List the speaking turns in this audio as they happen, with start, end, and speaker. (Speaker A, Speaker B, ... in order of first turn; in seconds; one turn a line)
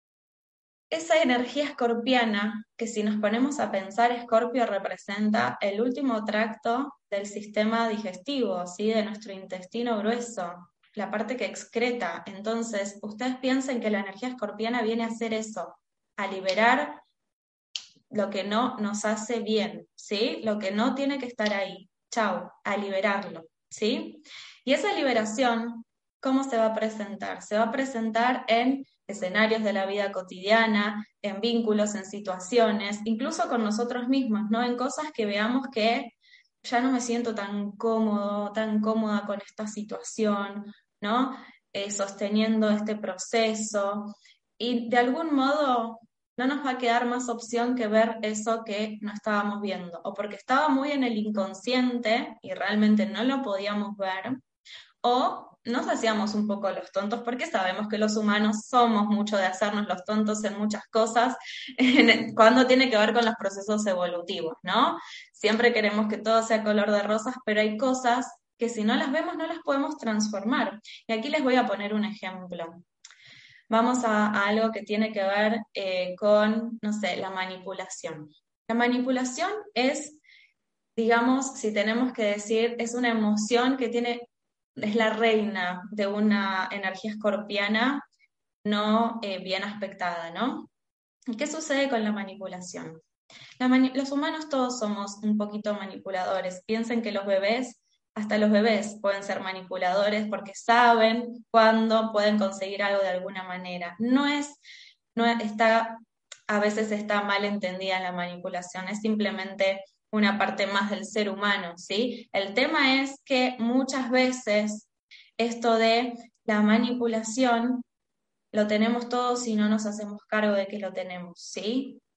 Speaker A: 0.9-17.0
Speaker A: 18.1-54.4
Speaker A: 55.0-72.8
Speaker A: 73.7-80.2
Speaker A: 81.0-88.0
Speaker A: 88.6-90.7
Speaker A: 91.3-93.0
Speaker A: 93.6-104.6
Speaker A: 105.1-117.8
Speaker A: 118.5-122.0